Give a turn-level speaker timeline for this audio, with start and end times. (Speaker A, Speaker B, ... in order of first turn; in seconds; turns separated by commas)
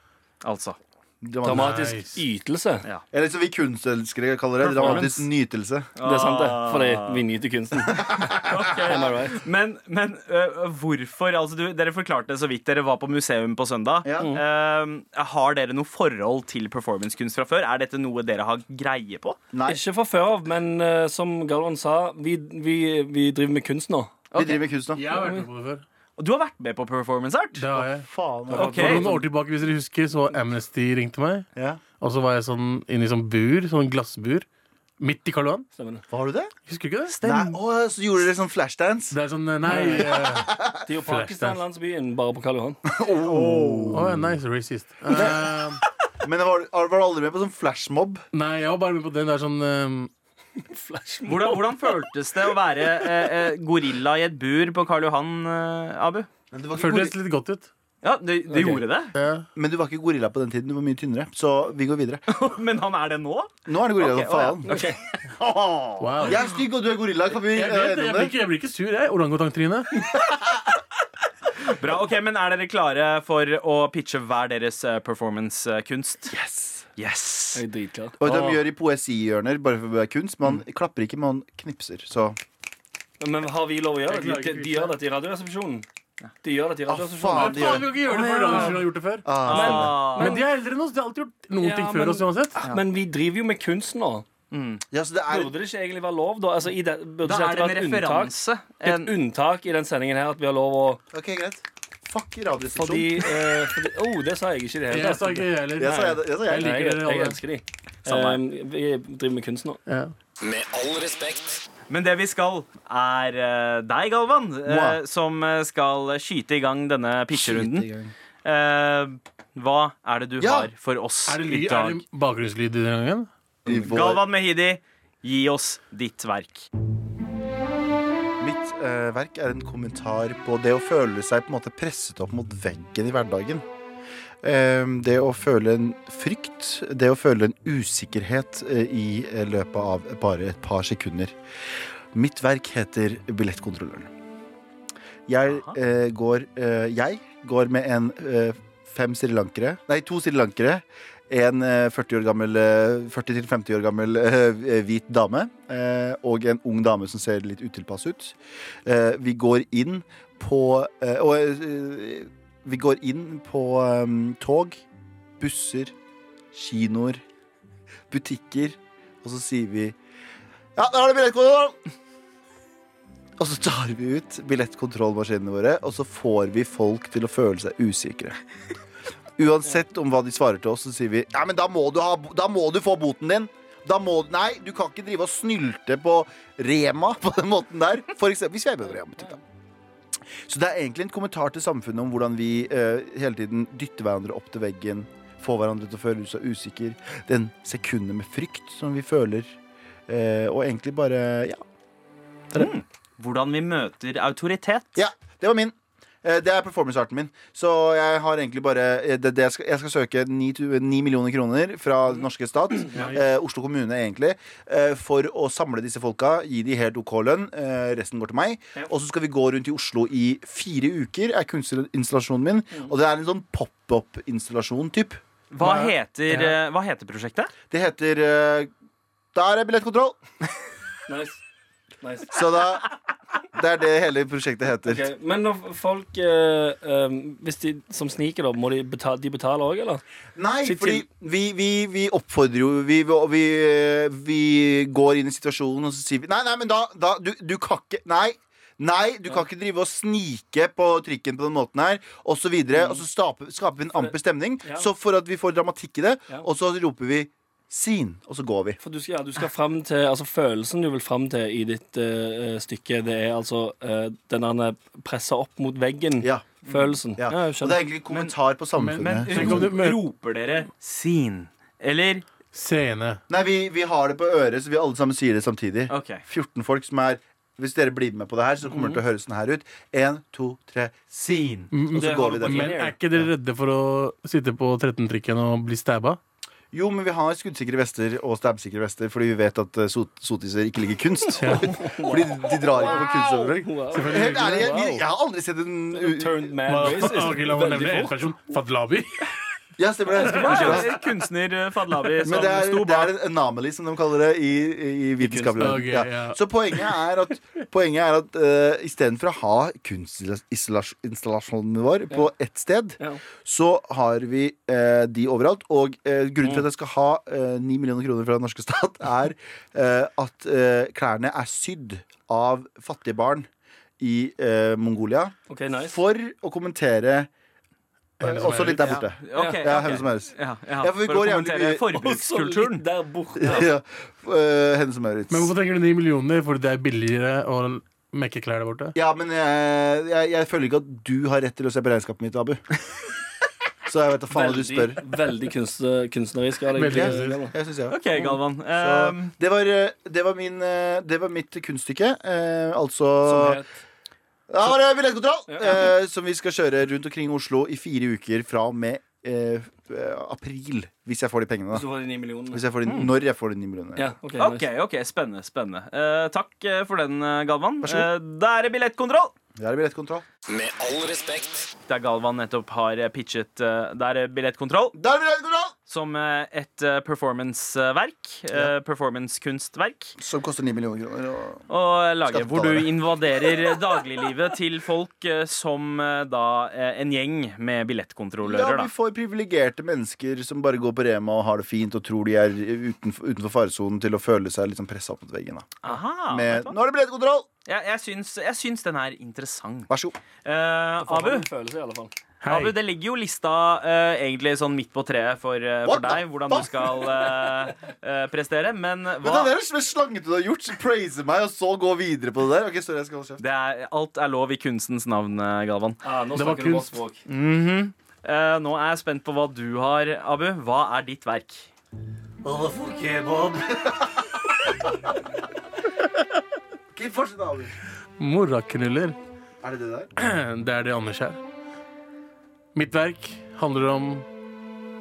Speaker A: 0.4-0.8, Speaker B: 1.2-2.0, Speaker C: 1.4-2.8, Speaker D: 1.5-2.2, Speaker B: 3.1-5.9, Speaker A: 4.6-5.2, Speaker C: 4.8-5.2, Speaker A: 6.0-7.2, Speaker C: 6.0-9.4, Speaker B: 7.9-9.1, Speaker A: 8.4-19.4, Speaker B: 14.0-14.4, Speaker B: 19.5-19.8, Speaker C: 19.6-24.3, Speaker B: 24.3-25.1, Speaker D: 24.9-25.8, Speaker C: 25.1-25.4, Speaker A: 26.2-27.6, Speaker D: 27.6-31.4, Speaker B: 27.7-29.1, Speaker C: 28.5-29.2, Speaker A: 28.5-29.1, Speaker B: 31.6-31.8, Speaker D: 32.0-34.5, Speaker D: 35.0-35.6, Speaker C: 35.7-36.0, Speaker B: 36.1-36.5, Speaker D: 36.7-37.6, Speaker B: 37.2-40.8, Speaker D: 39.1-41.6, Speaker C: 39.7-40.0, Speaker C: 40.8-42.8, Speaker B: 42.8-44.3, Speaker A: 43.2-44.1, Speaker D: 43.9-45.8, Speaker B: 45.1-45.6, Speaker B: 46.2-48.2, Speaker D: 48.3-50.1, Speaker C: 50.6-51.9, Speaker A: 51.2-56.3, Speaker B: 56.5-57.1, Speaker D: 56.8-57.7, Speaker A: 58.0-59.1, Speaker C: 58.5-58.8, Speaker D: 59.1-59.5, Speaker B: 59.5-62.2, Speaker A: 62.3-64.8, Speaker B: 63.6-68.3, Speaker C: 64.6-65.0, Speaker D: 66.0-66.5, Speaker D: 67.5-70.0, Speaker B: 70.2-70.5, Speaker A: 71.6-76.3, Speaker B: 76.3-76.8, Speaker A: 77.0-77.6, Speaker C: 77.5-78.6, Speaker B: 78.2-82.4, Speaker C: 83.2-85.8, Speaker D: 84.1-85.0, Speaker C: 86.4-88.7, Speaker B: 86.9-87.9, Speaker D: 87.3-89.6, Speaker A: 88.1-88.8, Speaker B: 89.2-90.1, Speaker A: 89.4-90.4, Speaker C: 89.4-90.4, Speaker D: 90.2-92.6, Speaker C: 91.6-94.2, Speaker A: 94.5-94.8, Speaker B: 94.9-95.5, Speaker C: 95.3-101.0, Speaker A: 97.2-99.1, Speaker B: 101.1-103.4, Speaker C: 102.7-109.8, Speaker D: 104.9-107.4, Speaker B: 105.8-106.7, Speaker A: 108.0-108.4, Speaker D: 109.9-110.1, Speaker E: 110.4-111.6, Speaker A: 111.9-117.9, Speaker B: 114.6-115.0, Speaker B: 117.3-118.1, Speaker A: 118.4-122.0, Speaker B: 120.4-120.7, Speaker D: 121.3-123.3, Speaker B: 123.7-124.2, Speaker A: 123.7-126.7, Speaker B: 128.4-133.6, Speaker B: 134.4-141.3, Speaker B: 142.1-144.1, Speaker B: 145.3-164.8, Speaker A: 145.5-145.7, Speaker B: 165.4-165.9, Speaker B: 166.5-167.2, Speaker B: 168.1-169.9, Speaker B: 170.7-171.8, Speaker B: 173.4-178.4, Speaker B: 179.4-189.4, Speaker B: 190.4-199.6, Speaker B: 200.1-201.6, Speaker A: 202.5-205.0, Speaker B: 204.9-225.8, Speaker D: 212.9-213.2, Speaker A: 225.5-227.5, Speaker B: 227.7-228.7, Speaker B: 229.3-230.2, Speaker C: 231.1-231.4, Speaker C: 232.0-232.3, Speaker B: 232.3-232.9, Speaker B: 233.5-235.1, Speaker C: 234.8-240.0, Speaker B: 240.3-258.8, Speaker C: 240.6-241.0, Speaker C: 254.6-254.9, Speaker C: 258.8-267.8, Speaker B: 266.2-266.5, Speaker B: 267.1-269.7, Speaker A: 268.1-268.3, Speaker D: 268.8-270.0, Speaker A: 269.0-272.2, Speaker D: 272.5-273.2, Speaker B: 273.3-283.3, Speaker A: 275.9-276.2, Speaker A: 281.3-281.7, Speaker D: 281.7-286.2, Speaker C: 281.9-283.0, Speaker B: 286.7-297.1, Speaker D: 291.4-291.8, Speaker C: 291.4-295.0, Speaker D: 293.9-295.0, Speaker C: 295.9-298.3, Speaker D: 296.7-299.3, Speaker B: 299.8-301.0, Speaker C: 300.2-301.0, Speaker A: 300.3-303.1, Speaker B: 302.2-323.5, Speaker C: 305.2-305.9, Speaker D: 305.6-306.4, Speaker B: 324.0-327.3, Speaker C: 325.5-326.0, Speaker B: 328.2-331.9, Speaker D: 328.2-329.0, Speaker A: 328.8-332.8, Speaker C: 329.3-329.7, Speaker C: 331.9-333.7, Speaker B: 333.4-335.5, Speaker D: 335.3-338.9, Speaker B: 338.9-342.6, Speaker B: 343.9-345.0, Speaker C: 344.3-347.6, Speaker D: 346.7-347.4, Speaker B: 346.9-348.0, Speaker A: 347.9-349.3, Speaker B: 348.7-353.6, Speaker C: 353.2-353.7, Speaker B: 354.5-361.9, Speaker C: 355.5-355.9, Speaker C: 361.7-362.6, Speaker B: 362.5-364.1, Speaker C: 363.9-364.6, Speaker A: 364.4-369.3, Speaker B: 367.8-368.1, Speaker B: 369.6-370.2, Speaker E: 370.5-371.7, Speaker A: 371.9-375.0, Speaker B: 374.9-375.7, Speaker A: 375.9-380.1, Speaker B: 380.2-381.7, Speaker A: 381.7-388.9, Speaker B: 382.2-383.0, Speaker B: 388.4-397.5, Speaker A: 395.8-396.8, Speaker A: 397.6-399.9, Speaker B: 399.9-400.2, Speaker A: 400.4-401.5, Speaker C: 401.0-402.1, Speaker D: 402.4-402.8, Speaker A: 402.5-409.5, Speaker B: 405.8-407.7, Speaker B: 409.2-413.4, Speaker A: 413.4-416.0, Speaker C: 416.0-417.2, Speaker D: 416.3-416.9, Speaker A: 417.3-421.7, Speaker B: 422.4-424.3, Speaker B: 426.9-427.8, Speaker D: 428.2-429.2, Speaker B: 429.6-430.1, Speaker D: 430.2-431.4, Speaker D: 432.7-434.2